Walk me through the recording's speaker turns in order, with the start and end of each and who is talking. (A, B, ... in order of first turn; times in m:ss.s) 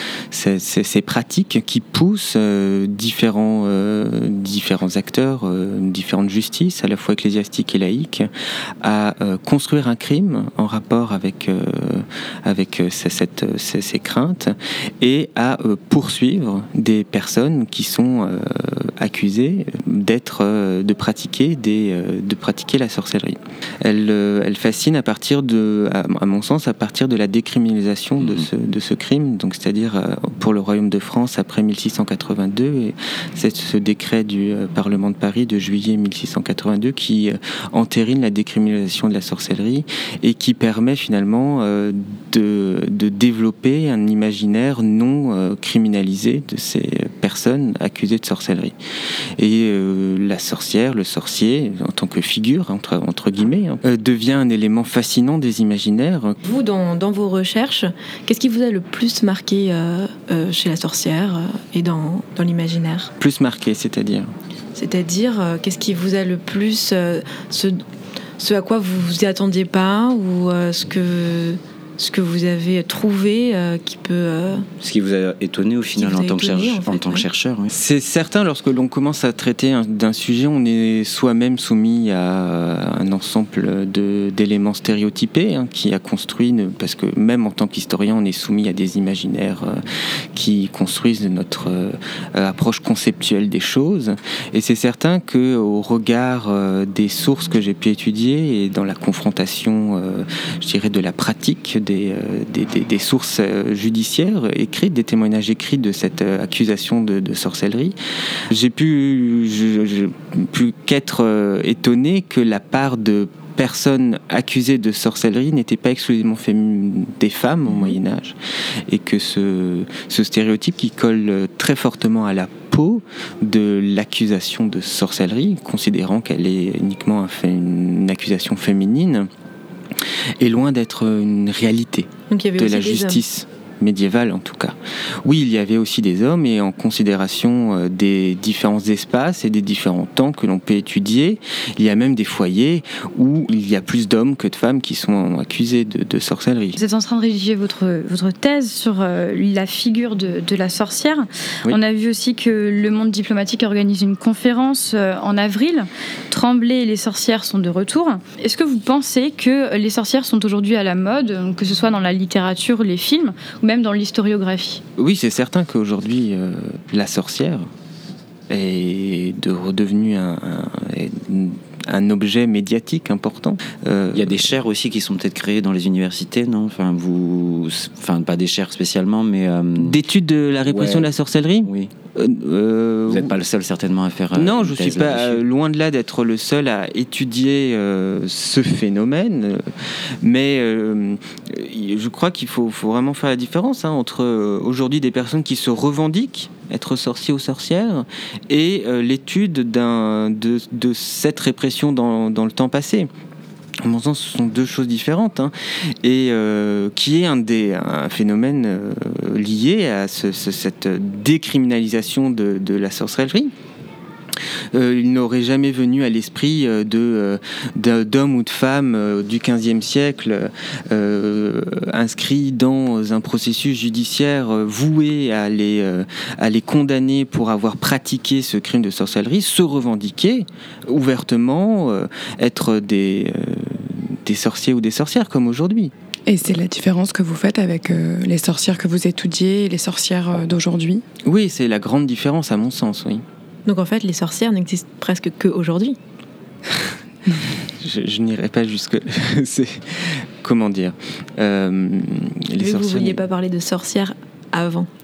0:00.3-0:08.3 A
0:08.8-0:48.8 A
0:28.2-0:28.5 B
0:49.4-0:56.4 A
0:56.4-1:03.1 C
1:03.2-1:04.3 A
1:04.8-1:07.8 C
1:08.4-1:14.6 C
1:14.8-1:17.7 B
1:16.0-1:17.2 C
1:17.7-1:29.8 A
1:30.3-1:48.0 A
1:48.5-1:58.4 A
1:58.9-2:09.3 A
2:10.4-2:26.8 A
2:12.3-2:13.2 C
2:26.8-2:44.8 D
2:45.0-2:47.7 A
2:48.5-2:54.4 A
2:54.1-3:00.0 B
2:59.8-3:03.3 A
3:00.7-3:01.1 B
3:01.6-3:01.9 B
3:03.1-3:05.4 B
3:04.4-3:09.7 A
3:10.2-3:23.1 A
3:23.8-3:25.5 A
3:26.0-3:33.5 A
3:34.7-3:55.9 A
3:56.3-4:01.0 E
4:01.2-4:03.2 A
4:03.7-4:06.0 C
4:07.8-4:13.2 A
4:12.6-4:14.9 C